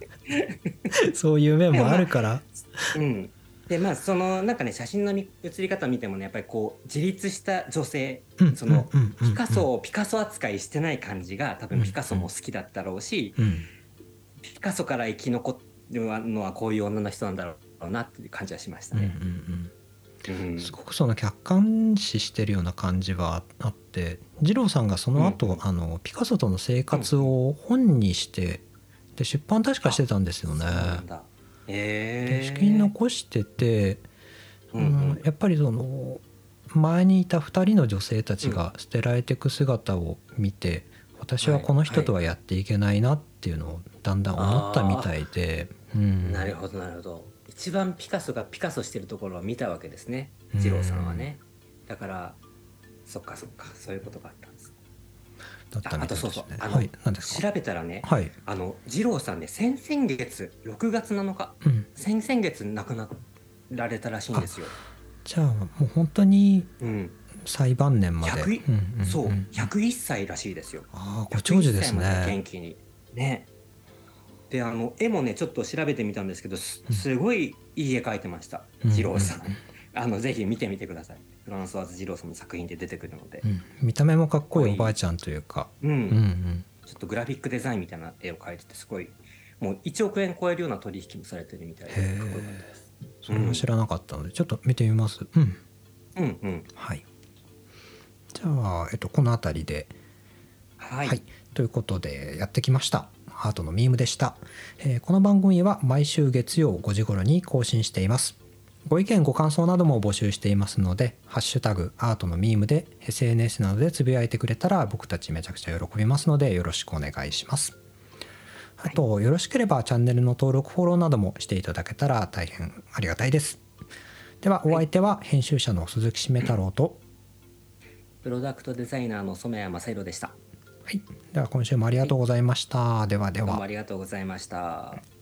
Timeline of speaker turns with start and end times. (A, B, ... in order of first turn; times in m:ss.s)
0:00.3-0:00.9 A
0:00.9-0:03.0 B
0:01.7-0:02.1 A
0:02.9-0:13.5 A
0:08.4-0:09.7 B
0:11.7-0:12.3 B
0:13.4-0:13.7 B
0:14.4-0:19.2 A
0:18.9-0:19.7 B
0:20.3-0:20.7 A
0:20.6-0:28.6 B
0:25.2-0:25.6 A
0:26.9-0:27.3 A
0:29.2-0:31.0 B
0:29.8-0:32.9 A
0:32.3-0:34.0 B
0:34.7-0:35.2 A
0:34.8-0:46.5 B
0:41.4-0:42.1 A
0:44.4-0:45.1 A
0:46.2-0:52.4 A
0:50.5-0:51.3 B
0:53.1-0:54.7 A
0:55.7-0:57.4 B
0:55.8-1:04.7 A
0:58.0-0:58.3 B
1:01.6-1:01.9 B
1:05.2-1:06.7 B
1:06.8-1:07.2 A
1:07.4-1:09.7 B
1:08.2-1:13.5 A
1:10.9-1:12.4 B
1:14.5-1:23.5 A
1:18.8-1:19.5 B
1:23.4-1:26.7 B
1:24.5-1:24.9 A
1:25.8-1:26.2 A
1:26.8-1:33.7 A
1:31.9-1:32.7 B
1:33.2-1:35.6 B
1:36.2-1:36.7 A
1:36.8-1:37.0 B
1:38.3-1:39.9 B
1:40.8-1:41.2 A
1:41.0-1:57.8 B
1:58.8-2:03.6 B
2:04.4-2:07.0 B
2:08.2-2:10.4 A
2:10.9-2:13.6 B
2:13.4-2:15.0 A